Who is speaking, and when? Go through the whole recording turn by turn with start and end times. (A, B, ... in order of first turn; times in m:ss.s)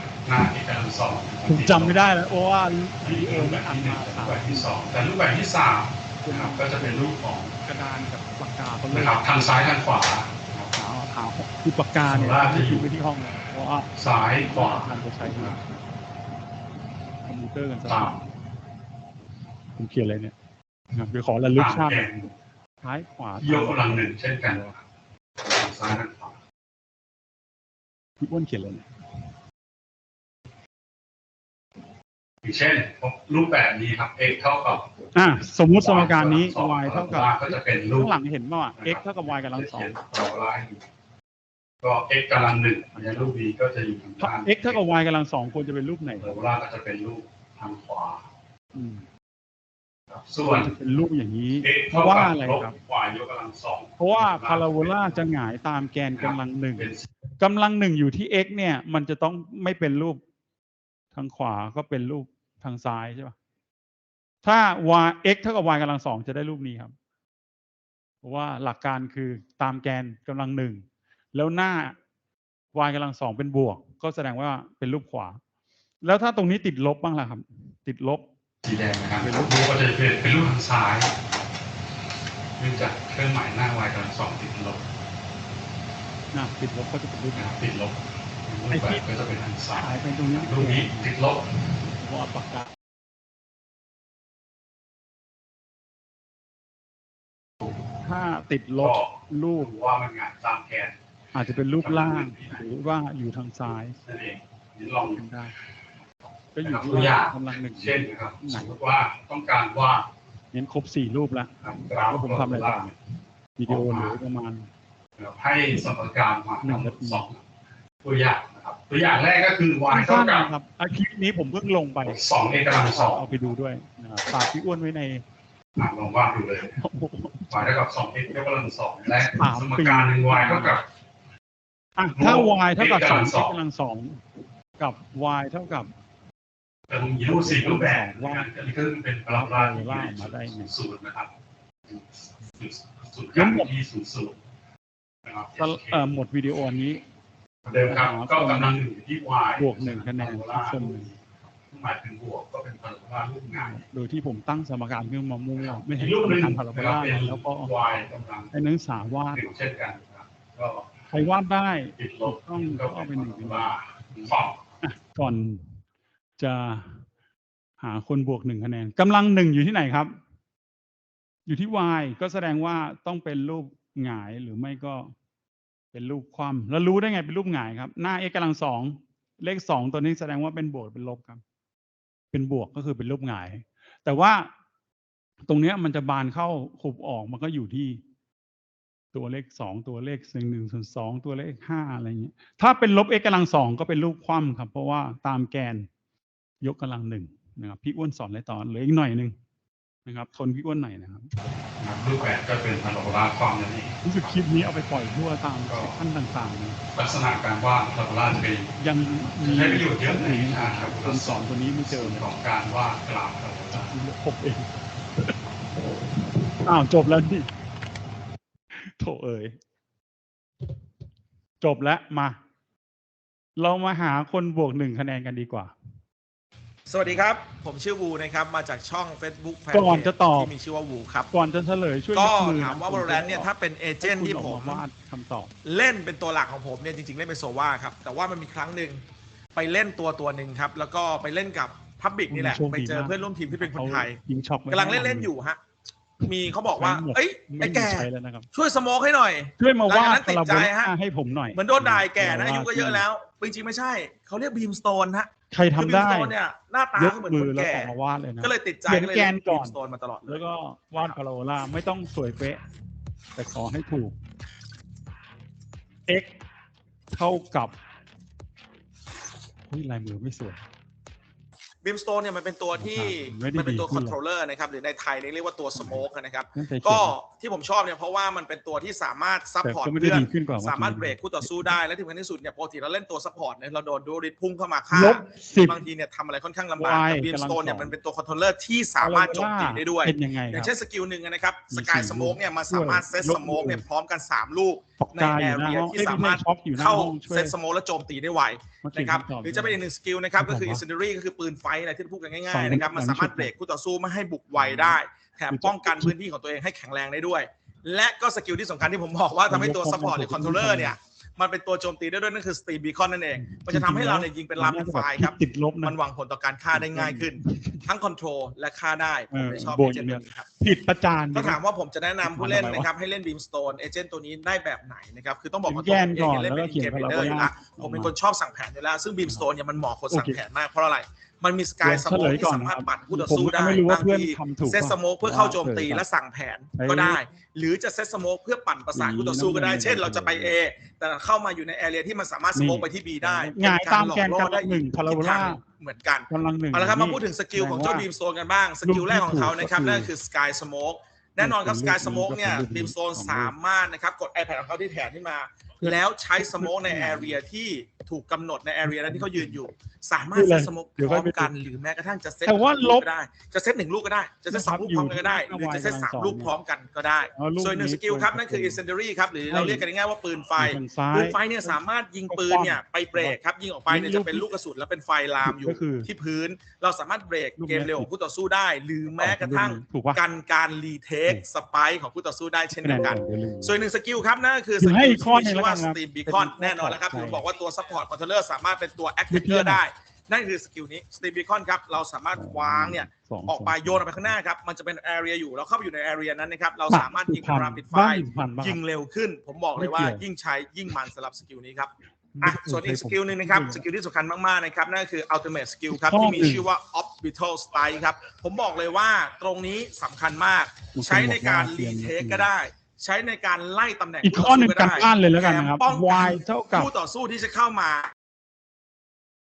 0:00.2-0:02.0 A
0:01.5-0:04.7 B
0:03.0-0:07.2 A
0:06.2-0:09.7 B
0:08.9-0:10.8 A
0:10.7-0:15.6 B
0:12.1-0:12.9 A
0:14.0-0:15.6 A
0:17.2-0:18.3 B
0:17.9-0:18.2 A
0:19.8-0:20.3 B
0:20.9-0:24.8 B
0:21.6-0:22.3 A
0:23.4-0:24.8 A
0:25.4-0:26.3 A
0:28.2-0:28.9 B
0:32.4-0:34.9 A
0:35.1-0:40.0 B
0:35.8-0:38.1 A
0:38.8-0:40.9 A
0:41.8-0:44.8 A
0:42.9-0:43.4 B
0:44.2-0:46.3 B
0:46.2-0:48.2 A
0:48.8-0:49.1 B
0:50.1-0:50.7 A
0:50.5-0:52.8 B
0:51.6-0:55.2 A
0:54.0-1:00.2 B
0:56.2-0:57.1 A
1:01.1-1:03.4 B
1:04.4-1:06.9 B
1:08.2-1:12.0 B
1:12.7-1:15.4 B
1:16.0-1:18.2 B
1:18.6-1:21.1 A
1:19.2-1:19.6 B
1:22.6-1:24.9 A
1:26.3-1:27.5 B
1:27.4-1:31.5 A
1:28.7-1:29.1 B
1:29.7-1:31.1 B
1:32.0-1:32.7 B
1:38.0-1:39.7 B
1:38.8-1:41.0 A
1:41.3-1:44.0 B
1:41.8-1:42.6 A
1:44.0-1:45.2 A
1:45.1-1:45.6 B
1:46.5-1:48.7 B
1:46.6-1:50.1 A
1:50.5-1:53.0 B
1:51.6-1:52.9 A
1:53.6-1:54.7 B
1:53.7-1:54.2 A
1:55.2-1:57.4 A
1:56.6-1:57.3 B
1:58.0-2:00.5 A
1:59.9-2:05.2 B
2:02.0-2:03.5 A
2:05.8-2:06.8 A
2:06.8-2:07.7 B
2:07.5-2:10.9 A
2:09.1-2:10.8 B
2:12.0-2:14.2 B
2:12.1-2:13.6 A
2:14.8-2:15.9 B
2:16.9-2:21.3 A
2:17.2-2:18.5 B
2:19.3-2:20.7 B
2:21.9-2:24.4 A
2:23.3-2:23.7 B
2:25.3-2:26.0 A
2:25.6-2:27.0 B
2:27.7-2:31.2 A
2:27.9-2:28.8 B
2:29.6-2:31.1 B
2:31.7-2:33.8 A
2:33.5-2:37.7 B
2:35.7-2:38.5 A
2:38.5-2:39.4 B
2:39.3-2:41.0 A
2:41.1-2:43.7 B
2:42.0-2:44.6 A
2:44.3-2:45.8 B
2:46.4-2:47.1 B
2:47.8-2:50.2 B
2:51.5-2:55.1 B
2:55.9-3:01.4 B
3:02.3-3:04.5 B
3:05.4-3:08.0 B
3:09.1-3:15.9 B
3:16.6-3:19.4 B
3:20.1-3:21.3 B
3:21.8-3:24.0 A
3:24.0-3:26.8 B
3:25.7-3:26.0 A
3:26.9-3:28.7 A
3:28.8-3:32.3 B
3:29.4-3:34.0 A
3:33.7-3:35.4 B
3:36.6-3:37.5 B
3:38.7-3:39.6 B
3:41.6-3:42.4 B
3:43.6-3:45.7 B
3:46.9-3:51.3 C
3:49.7-3:50.5 B
3:51.3-3:53.5 B
3:52.1-3:54.9 C
3:54.0-3:55.5 B
3:55.6-3:59.0 C
3:59.6-4:05.6 C
4:02.3-4:05.3 B
4:06.2-4:10.9 C
4:06.6-4:08.5 B
4:09.6-4:13.0 B
4:11.5-4:20.4 C
4:15.5-4:16.4 B
4:17.0-4:22.6 B
4:23.4-4:24.1 B
4:26.1-4:26.4 B
4:27.1-4:27.7 B
4:29.7-4:30.6 B
4:31.8-5:20.5 C
4:32.8-4:34.2 B
4:35.8-4:37.2 B
4:39.6-4:41.7 B
4:44.9-4:45.8 B
4:46.8-4:48.0 B
4:49.0-4:50.7 B
4:51.7-4:53.8 B
4:55.0-4:57.6 B
4:58.8-4:59.8 B
5:00.4-5:00.8 B
5:02.5-5:03.5 B
5:04.5-5:05.0 B
5:05.5-5:06.2 B
5:09.5-5:11.0 B
5:13.4-5:16.0 B
5:16.7-5:17.9 B
5:19.3-5:21.6 B
5:21.3-6:58.1 C
5:22.2-5:22.9 B
5:25.6-5:28.1 B
5:30.1-5:30.4 B
5:31.8-5:36.0 B
5:36.7-5:37.2 B
5:38.9-5:40.6 B
5:42.6-5:45.6 B
5:46.3-5:48.1 B
5:48.8-5:50.1 B
5:51.4-5:53.5 B
5:55.8-5:57.4 B
5:58.8-5:59.6 B
6:00.3-6:01.5 B
6:02.4-6:03.1 B
6:04.5-6:06.5 B
6:07.3-6:08.8 B
6:09.5-6:09.9 B
6:10.6-6:14.5 B
6:15.4-6:16.1 B
6:17.6-6:18.1 B
6:19.1-6:20.2 B
6:22.7-6:23.8 B
6:24.8-6:27.4 B
6:29.3-6:29.8 B
6:32.3-6:34.4 B
6:36.9-6:38.8 B
6:39.8-6:40.2 B
6:42.4-6:43.9 B
6:45.9-6:46.7 B
6:50.9-6:52.5 B
6:54.2-6:56.9 B